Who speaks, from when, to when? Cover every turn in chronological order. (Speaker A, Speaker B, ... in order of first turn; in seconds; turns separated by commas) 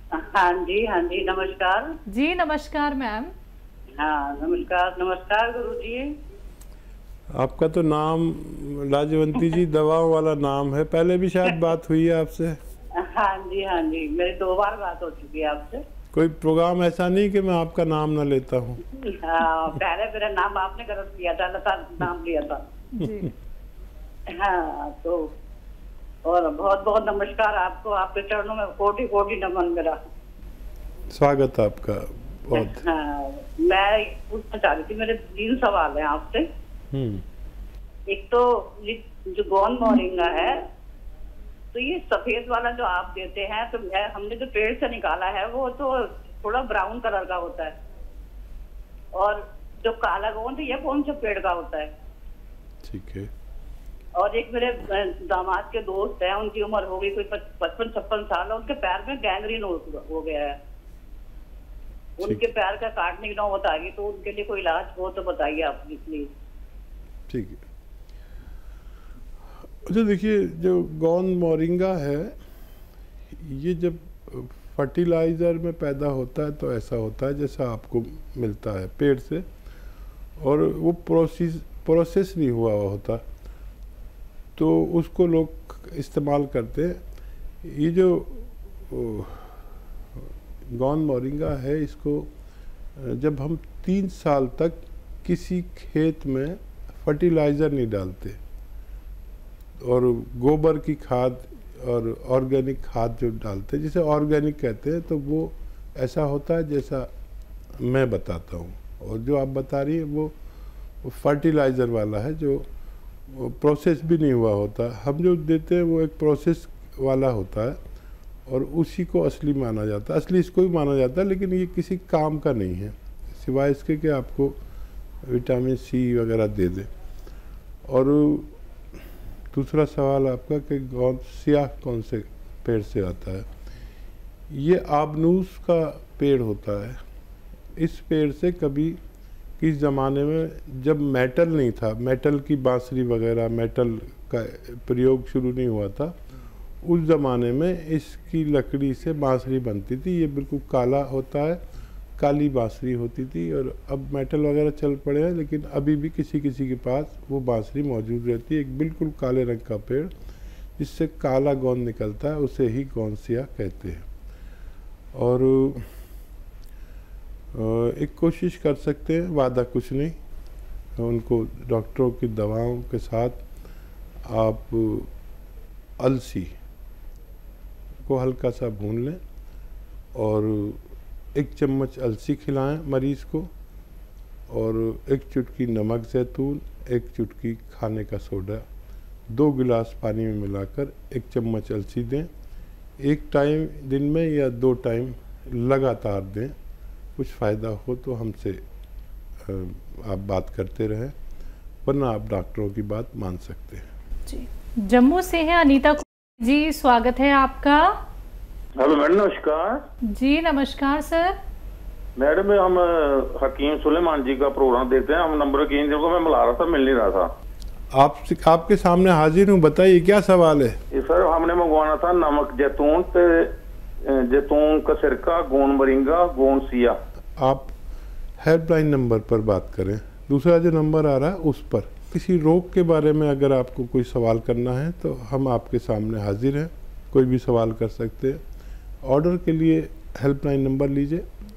Speaker A: 0.2-1.9, Speaker B: 2.1-3.3, Speaker A: 4.0-6.1, Speaker C: 7.3-12.6, Speaker A: 13.1-15.8, Speaker C: 16.1-18.8, Speaker A: 19.2-22.6, Speaker B: 22.9-23.3, Speaker A: 24.4-25.2, Speaker A: 26.3-30.0, Speaker C: 31.1-32.8, Speaker A: 32.5-36.5, Speaker C: 36.9-37.2, Speaker A: 38.1-40.5, Speaker A: 41.7-47.7, Speaker A: 49.1-51.9, Speaker C: 52.8-53.3, Speaker A: 54.2-60.6, Speaker A: 62.2-66.3, Speaker C: 67.3-67.6, Speaker C: 69.8-72.3, Speaker C: 73.3-79.5, Speaker C: 80.4-83.2, Speaker C: 84.6-87.0, Speaker C: 87.6-89.6, Speaker C: 90.7-92.3, Speaker C: 93.0-98.4, Speaker C: 99.8-107.1, Speaker C: 107.8-110.3, Speaker C: 111.0-112.7, Speaker C: 113.3-117.8, Speaker C: 118.5-124.6, Speaker C: 125.2-126.9, Speaker C: 127.9-128.6, Speaker C: 129.5-133.5, Speaker C: 134.5-137.0, Speaker C: 137.8-139.0, Speaker C: 139.6-146.2, Speaker C: 146.8-151.6, Speaker C: 152.2-160.1, Speaker C: 160.8-164.1, Speaker C: 165.2-165.9, Speaker C: 167.5-170.2, Speaker C: 171.0-173.4, Speaker C: 174.3-175.1, Speaker C: 176.0-176.5, Speaker C: 178.1-179.2, Speaker C: 180.1-180.8, Speaker C: 181.3-183.5, Speaker C: 184.5-188.6, Speaker C: 189.3-192.3, Speaker C: 193.0-196.5, Speaker C: 197.2-198.6, Speaker C: 199.4-201.2, Speaker C: 201.8-203.9, Speaker B: 204.3-207.9, Speaker D: 208.8-209.8, Speaker B: 210.1-211.3, Speaker D: 212.2-217.3, Speaker C: 217.9-220.8, Speaker D: 220.9-223.5, Speaker D: 224.1-227.0, Speaker C: 227.4-227.7, Speaker C: 228.4-238.4, Speaker C: 239.0-241.2